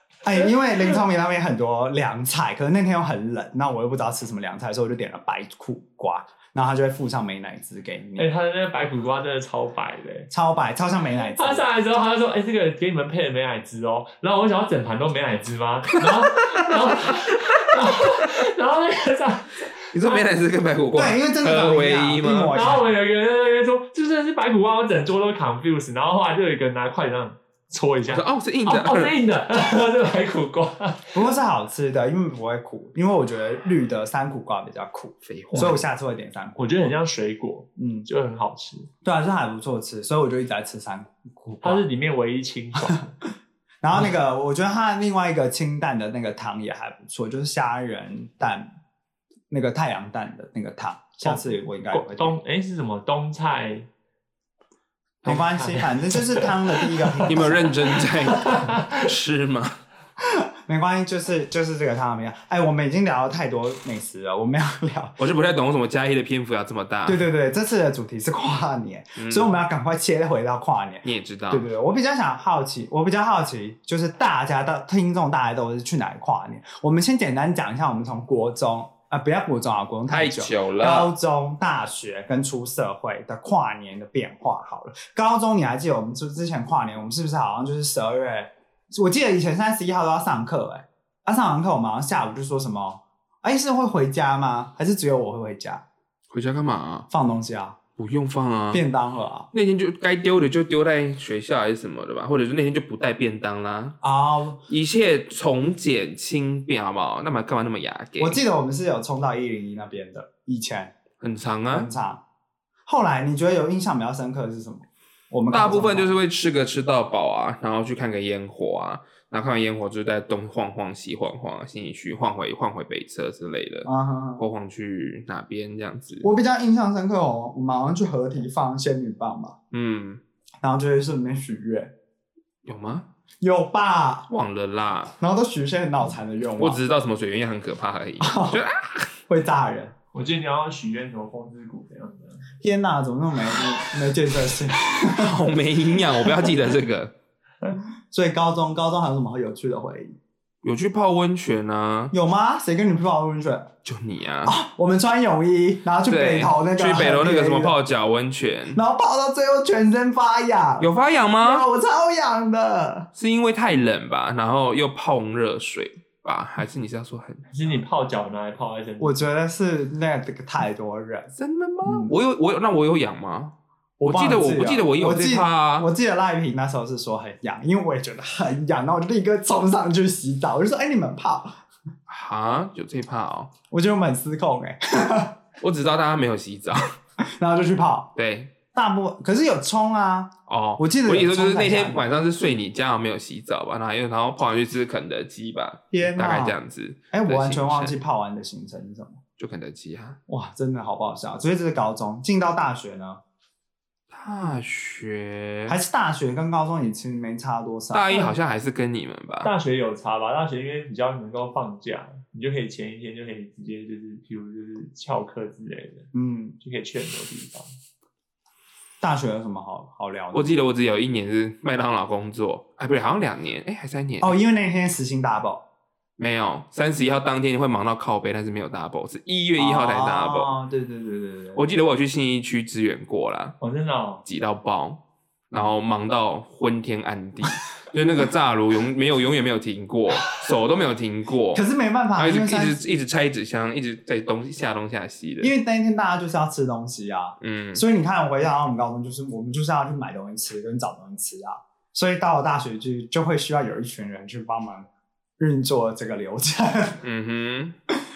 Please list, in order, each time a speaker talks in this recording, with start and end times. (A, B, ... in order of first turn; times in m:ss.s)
0:00.2-0:08.3 A
0:08.2-0:10.3 B
0:10.3-0:11.6 A
0:11.3-0:20.3 B
0:19.9-0:22.6 C
0:20.9-0:22.9 A
0:22.5-0:31.2 B
0:28.1-0:29.2 C
0:31.1-0:36.9 A
0:35.2-0:35.8 C
0:35.5-0:35.8 B
0:36.6-0:38.9 B
0:37.8-0:38.1 A
0:39.0-0:41.8 A
0:41.6-0:43.1 B
0:43.8-0:48.7 A
0:49.5-0:52.4 A
0:51.2-0:53.9 B
0:55.2-0:57.8 A
0:55.3-0:59.1 B
0:57.3-0:59.8 C
1:00.2-1:05.2 A
1:05.2-1:07.2 C
1:07.0-1:35.8 A
1:09.2-1:09.5 C
1:11.0-1:11.6 C
1:20.1-1:21.1 C
1:36.3-1:37.1 C
1:37.1-1:37.8 A
1:38.0-1:38.8 C
1:38.7-1:39.5 A
1:39.5-1:44.0 C
1:44.0-1:44.6 A
1:44.7-1:48.4 C
1:48.2-1:51.0 A
1:51.2-1:51.9 C
1:51.7-1:52.2 A
1:52.8-1:56.1 A
1:55.5-2:06.3 C
2:03.8-2:04.4 A
2:06.2-2:09.6 A
2:09.7-2:10.2 C
2:10.6-2:11.9 A
2:12.6-2:13.1 C
2:13.4-2:14.3 A
2:14.3-2:15.1 C
2:15.2-2:16.8 A
2:16.6-2:19.1 C
2:18.2-2:18.6 A
2:19.3-2:19.9 A
2:20.1-2:22.4 B
2:22.6-2:25.5 A
2:24.9-2:27.1 C
2:26.2-2:26.5 A
2:28.1-2:30.2 A
2:30.6-2:32.1 C
2:32.1-2:33.7 A
2:33.8-2:34.6 C
2:34.4-2:37.8 A
2:36.1-2:38.8 C
2:38.7-2:43.1 A
2:40.8-2:41.6 C
2:43.2-2:47.5 C
2:47.5-2:49.2 B
2:49.0-2:51.3 A
2:51.4-2:55.9 C
2:51.8-2:52.1 A
2:54.0-3:01.6 A
3:02.1-3:03.5 C
3:03.7-3:05.4 A
3:05.6-3:06.9 C
3:07.2-3:08.1 A
3:08.2-3:08.5 C
3:08.7-3:12.1 A
3:10.5-3:17.9 C
3:15.9-3:16.6 A
3:17.1-3:19.2 A
3:19.4-3:20.2 C
3:20.3-3:23.2 A
3:24.1-3:25.8 C
3:25.7-3:28.4 A
3:27.9-3:29.5 C
3:29.4-3:37.7 B
3:36.1-3:36.6 A
3:39.0-3:40.5 A
3:40.3-3:44.4 C
3:44.2-3:45.6 A
3:46.2-3:50.5 C
3:49.6-3:51.6 A
3:51.6-3:53.6 C
3:53.6-3:54.2 B
3:54.2-4:01.6 C
4:01.5-4:02.8 A
4:02.2-4:05.5 C
4:05.4-4:14.9 A
4:07.4-4:07.8 C
4:15.4-4:17.0 A
4:17.0-4:17.8 C